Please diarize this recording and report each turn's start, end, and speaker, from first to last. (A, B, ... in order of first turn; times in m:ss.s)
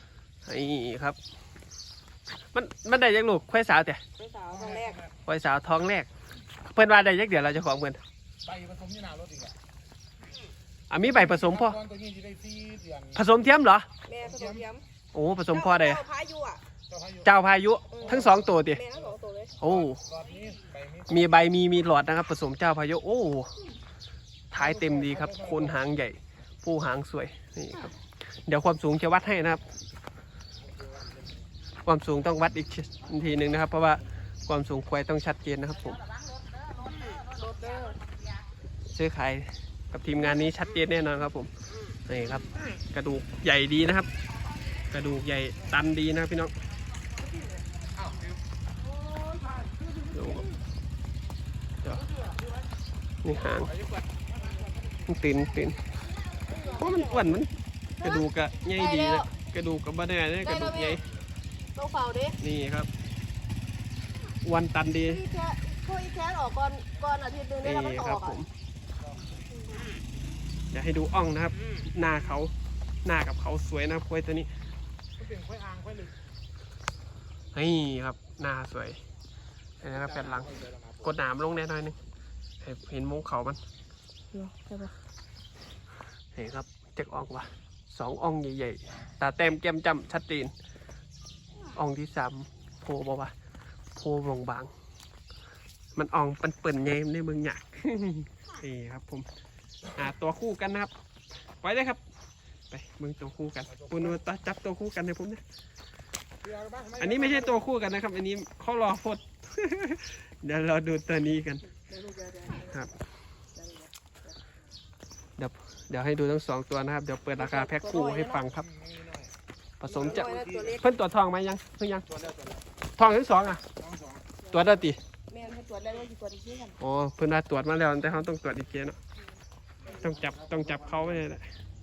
0:00.4-0:01.2 A
0:02.5-0:04.0 A
0:04.2-0:05.0 B
0:05.3-0:06.1 A
0:06.7-0:08.0 A
0:08.5-0:09.5 C
0:10.9-0:11.8 A
0:11.7-0:13.1 C
0:13.1-0:13.9 A
0:14.0-0:14.8 B
0:15.1-0:16.1 A
0:15.5-0:16.6 B
0:16.9-0:17.2 C
0:17.2-0:18.8 A
0:17.9-0:19.6 B
0:19.6-0:20.0 A
0:20.1-0:21.0 C
0:21.1-0:23.5 A
0:24.5-0:29.6 A
0:31.9-0:36.0 A
0:37.1-0:38.0 B
0:38.9-0:41.5 A
0:42.1-0:44.1 A
0:44.9-0:46.5 A
0:50.1-0:50.5 A
0:51.8-0:52.1 A
0:53.2-0:53.8 A
0:55.1-0:55.8 A
0:56.5-0:57.4 B
0:56.7-1:01.0 A
0:58.0-0:59.3 B
1:00.4-1:01.0 B
1:01.8-1:02.4 B
1:02.4-1:02.9 A
1:04.4-1:05.2 A
1:05.0-1:08.4 B
1:07.6-1:08.5 A
1:10.7-1:12.5 A
1:13.0-1:14.5 A
1:15.2-1:16.1 C
1:17.5-1:19.0 A
1:19.8-1:22.0 A
1:22.6-1:23.6 A
1:24.3-1:24.9 B
1:26.4-1:30.5 A
1:31.8-1:33.3 A
1:34.0-1:34.7 A
1:36.0-1:39.3 A
1:39.9-1:40.9 A
1:41.6-1:42.0 A
1:42.7-1:45.4 A
1:46.4-1:47.5 C
1:47.0-1:51.7 A
1:51.7-1:52.9 B
1:53.6-1:54.4 B
1:55.4-1:58.7 A
1:57.4-1:58.5 B
1:59.0-1:59.3 C
1:59.8-2:02.1 A
1:59.9-2:00.9 B
2:03.0-2:03.6 A
2:03.9-2:04.2 C
2:04.4-2:06.8 B
2:04.5-2:05.0 A
2:06.8-2:09.0 A
2:09.9-2:11.4 A